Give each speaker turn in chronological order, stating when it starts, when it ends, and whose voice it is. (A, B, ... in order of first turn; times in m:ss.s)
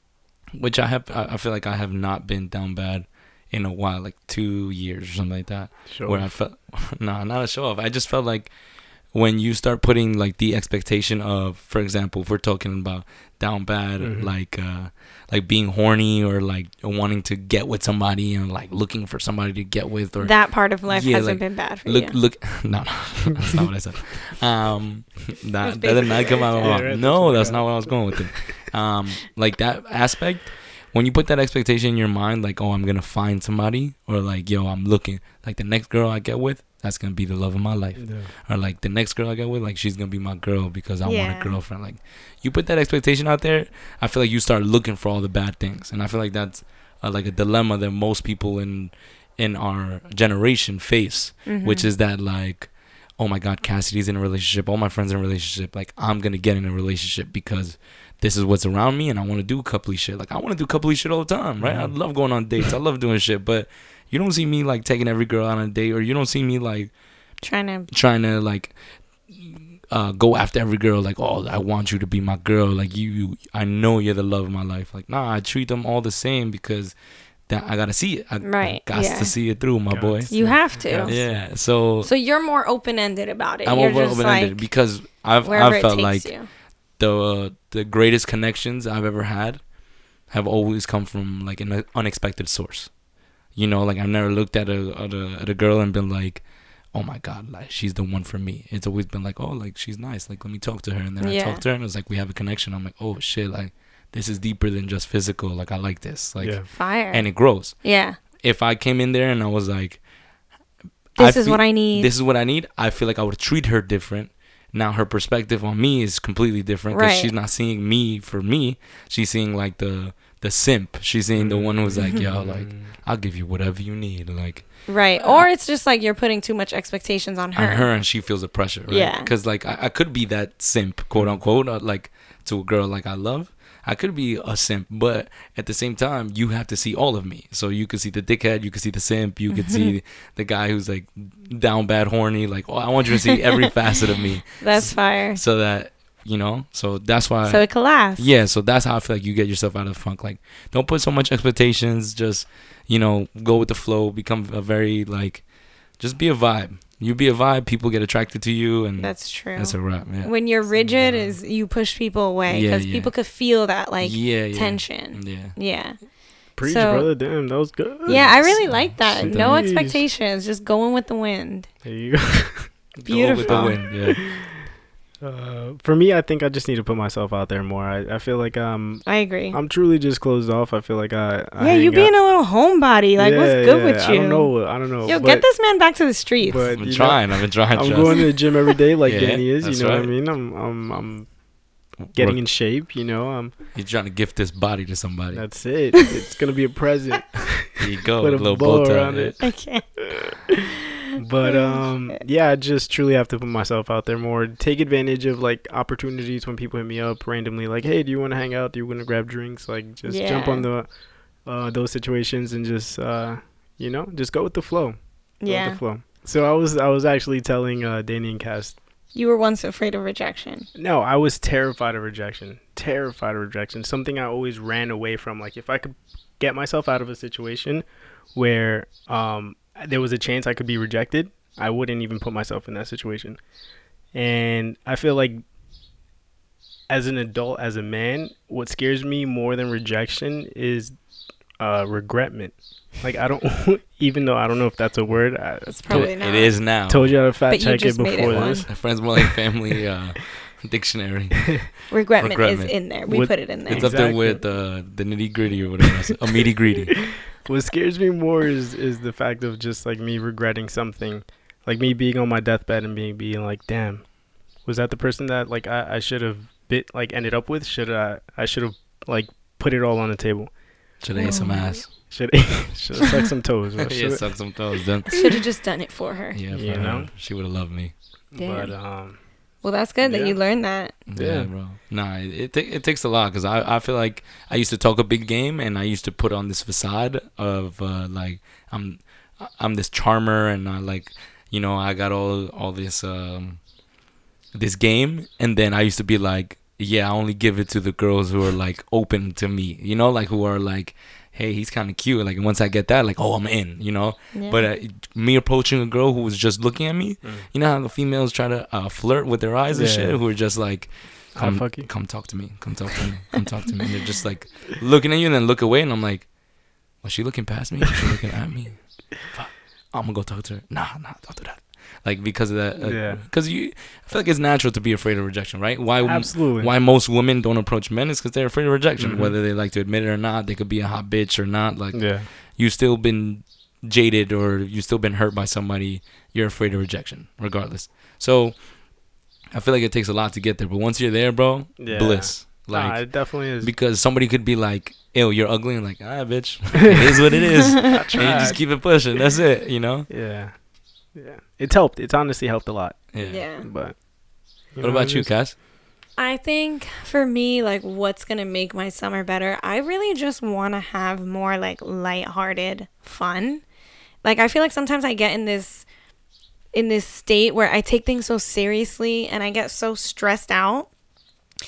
0:00.5-1:07.0 A
0:05.9-0:06.3 B
0:14.0-0:14.3 B
0:20.2-0:22.2 C
0:25.6-0:27.0 C
0:26.6-0:28.2 B
0:38.0-0:38.3 B
0:41.0-0:41.6 C
0:51.4-0:51.9 C
1:01.6-1:02.0 B
1:07.4-1:07.9 C
1:07.9-1:22.1 A
1:18.4-1:19.4 C
1:19.9-1:21.2 B
1:20.3-1:26.5 C
1:23.6-1:50.1 A
1:41.2-1:41.6 C
1:46.4-1:46.7 B
1:46.7-1:48.2 C
1:51.1-2:05.4 A
1:51.2-1:52.1 C
1:56.9-1:57.3 C
2:01.3-2:02.9 B
2:04.9-2:08.3 C
2:07.5-2:40.3 A
2:08.9-2:09.3 C
2:11.1-2:11.4 B
2:19.5-2:19.9 C
2:24.6-2:25.4 C
2:27.4-2:28.3 C
2:39.0-2:47.1 C
2:40.7-2:41.4 B
2:42.5-2:43.3 A
2:44.0-2:45.6 A
2:46.6-2:50.0 B
2:48.0-2:51.7 C
2:48.1-2:49.7 A
2:51.8-2:52.8 B
2:53.0-2:54.2 A
2:53.0-2:54.2 C
2:53.4-3:02.2 B
2:59.0-2:59.6 C
3:01.6-3:06.9 C
3:03.2-3:05.5 B
3:06.4-3:11.5 B
3:06.7-3:10.1 A
3:12.0-3:12.4 A
3:12.1-3:13.6 B
3:13.7-3:15.5 A
3:15.3-3:19.6 B
3:17.8-3:19.5 A
3:19.4-3:20.5 C
3:21.2-3:38.8 B
3:21.4-3:22.2 C
3:30.0-3:30.7 C
3:35.4-3:35.8 C
3:39.1-3:40.7 C
3:40.7-3:53.4 B
3:54.1-3:55.4 B
3:56.9-4:09.3 B
4:05.7-4:06.7 C
4:05.9-4:07.2 A
4:07.5-4:08.7 C
4:08.2-4:12.8 A
4:11.9-4:14.1 C
4:13.0-4:14.4 B
4:13.6-4:17.2 A
4:17.3-4:30.6 B
4:31.0-4:31.9 A
4:31.2-4:31.9 C
4:31.9-4:34.7 B
4:33.8-4:35.2 A
4:35.1-4:36.7 C
4:36.3-4:38.0 A
4:36.5-4:37.1 B
4:38.3-4:40.4 B
4:38.4-4:41.0 C
4:41.1-4:53.7 A
4:41.1-4:41.5 B
4:54.5-5:39.0 A
5:04.3-5:04.7 C
5:07.2-5:07.5 B
5:09.7-5:10.3 B
5:11.3-5:12.1 B
5:22.8-5:23.3 B
5:26.0-5:26.7 B
5:29.0-5:29.4 B
5:31.9-5:32.3 B
5:39.5-5:50.1 A
5:41.8-5:43.7 B
5:47.9-5:48.9 B
5:50.1-5:54.1 B
5:53.1-5:53.4 A
5:53.2-5:53.7 C
5:54.6-5:55.3 B
5:54.8-5:55.6 A
5:56.2-6:03.6 C
6:04.2-6:05.9 C
6:06.7-6:10.9 C